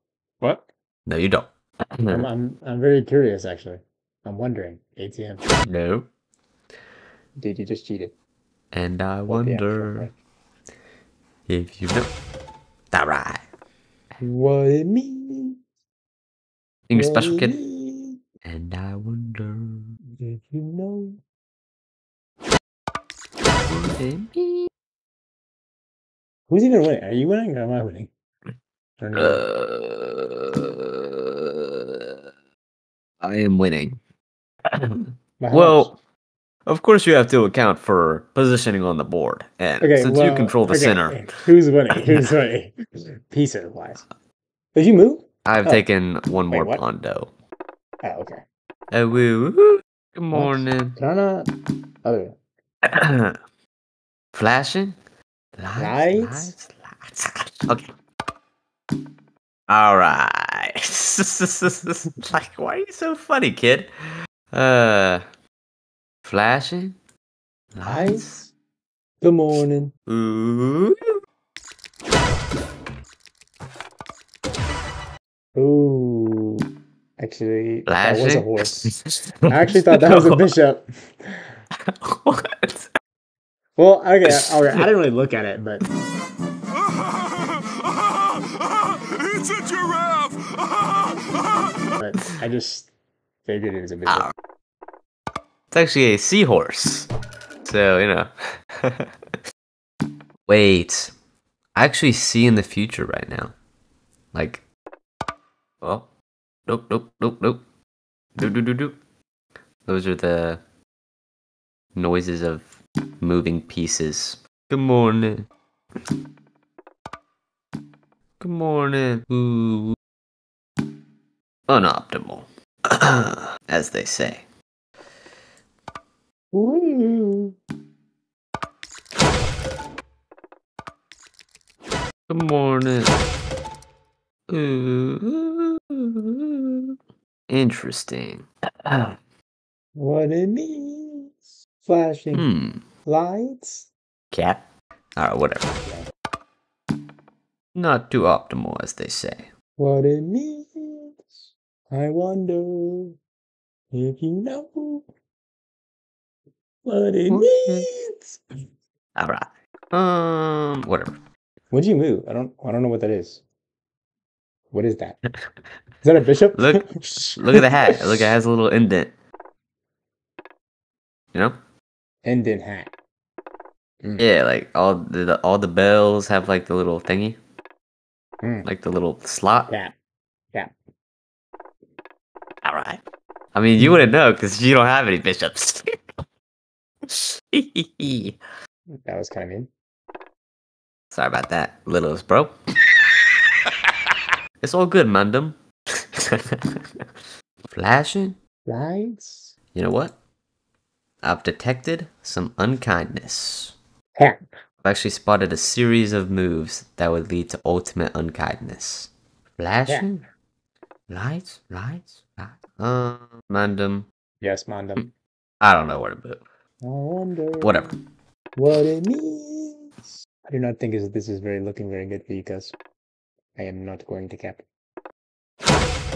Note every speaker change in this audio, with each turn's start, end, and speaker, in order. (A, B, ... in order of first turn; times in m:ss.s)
0:01.0-0:02.3 A
0:02.1-0:05.5 B
0:05.6-0:06.1 A
0:07.4-0:08.1 B
0:08.7-0:10.1 A
0:09.3-0:10.2 B
0:11.5-0:12.1 A
0:12.9-0:13.4 A
0:14.2-0:15.6 B
0:16.9-0:17.6 A
0:16.9-0:18.2 B
0:18.4-0:19.9 A
0:20.2-0:21.2 B
0:23.7-0:24.7 A
0:26.5-0:28.1 B
0:29.0-0:29.4 B
0:29.1-0:32.2 A
0:33.2-0:34.0 A
0:34.7-0:35.9 A
0:35.4-0:36.0 B
0:36.6-0:41.3 A
0:39.8-0:42.7 B
0:43.3-0:44.0 B
0:44.7-0:45.8 B
0:45.4-0:47.3 A
0:46.5-0:46.8 B
0:48.0-0:48.4 B
0:48.9-0:51.0 A
0:50.3-0:51.5 B
0:52.0-0:52.4 B
0:52.9-0:53.4 A
0:54.3-0:55.0 A
0:55.6-0:57.9 A
0:55.8-0:56.5 B
0:59.7-1:03.9 A
1:04.5-1:05.2 A
1:06.2-1:07.0 A
1:07.7-1:08.5 A
1:07.8-1:08.3 B
1:09.2-1:09.9 B
1:10.1-1:11.1 A
1:15.5-1:16.6 B
1:17.2-1:19.0 B
1:17.8-1:20.5 A
1:19.5-1:21.4 B
1:21.9-1:22.9 A
1:23.8-1:25.8 B
1:24.2-1:24.8 A
1:28.9-1:31.4 C
1:32.0-1:32.9 B
1:33.4-1:34.3 B
1:34.1-1:34.3 A
1:35.7-1:37.1 A
1:37.6-1:39.1 A
1:40.5-1:41.1 A
1:41.7-1:43.5 A
1:44.3-1:44.6 A
1:45.8-1:46.0 A
1:46.7-1:47.6 A
1:48.4-1:49.0 A
1:49.8-1:50.6 A
1:51.9-1:52.6 A
1:53.2-1:55.5 A
1:58.4-2:00.0 A
2:01.7-2:04.4 A
2:06.5-2:07.5 B
2:12.3-2:13.1 A
2:14.5-2:16.9 A
2:17.5-2:19.2 A
2:20.0-2:22.5 B
2:22.3-2:22.8 A
2:23.0-2:23.9 B
2:24.3-2:24.6 A
2:25.2-2:25.7 A
2:27.7-2:29.5 A
2:29.8-2:33.1 B
2:33.9-2:35.1 B
2:36.8-2:38.4 B
2:37.3-2:37.9 A
2:39.2-2:41.2 A
2:41.7-2:43.4 B
2:44.7-2:45.2 B
2:46.0-2:47.9 B
2:46.5-2:46.8 A
2:47.4-2:49.1 A
2:52.2-2:52.9 B
2:54.2-2:57.4 A
2:58.4-2:58.7 B
2:58.6-2:59.7 A
2:59.7-2:59.9 B
3:02.6-3:03.0 A
3:03.5-3:06.0 A
3:07.1-3:08.4 A
3:08.9-3:09.7 B
3:11.1-3:12.5 A
3:14.6-3:17.0 A
3:17.7-3:18.4 A
3:18.6-3:19.5 B
3:19.7-3:20.1 A
3:21.2-3:23.7 A
3:24.8-3:30.1 A
3:29.9-3:30.1 B
3:31.1-3:34.0 A
3:34.4-3:35.1 B
3:35.6-3:36.4 A
3:36.8-3:37.8 B
3:37.6-3:38.0 A
3:38.6-3:42.8 B
3:43.6-3:44.6 B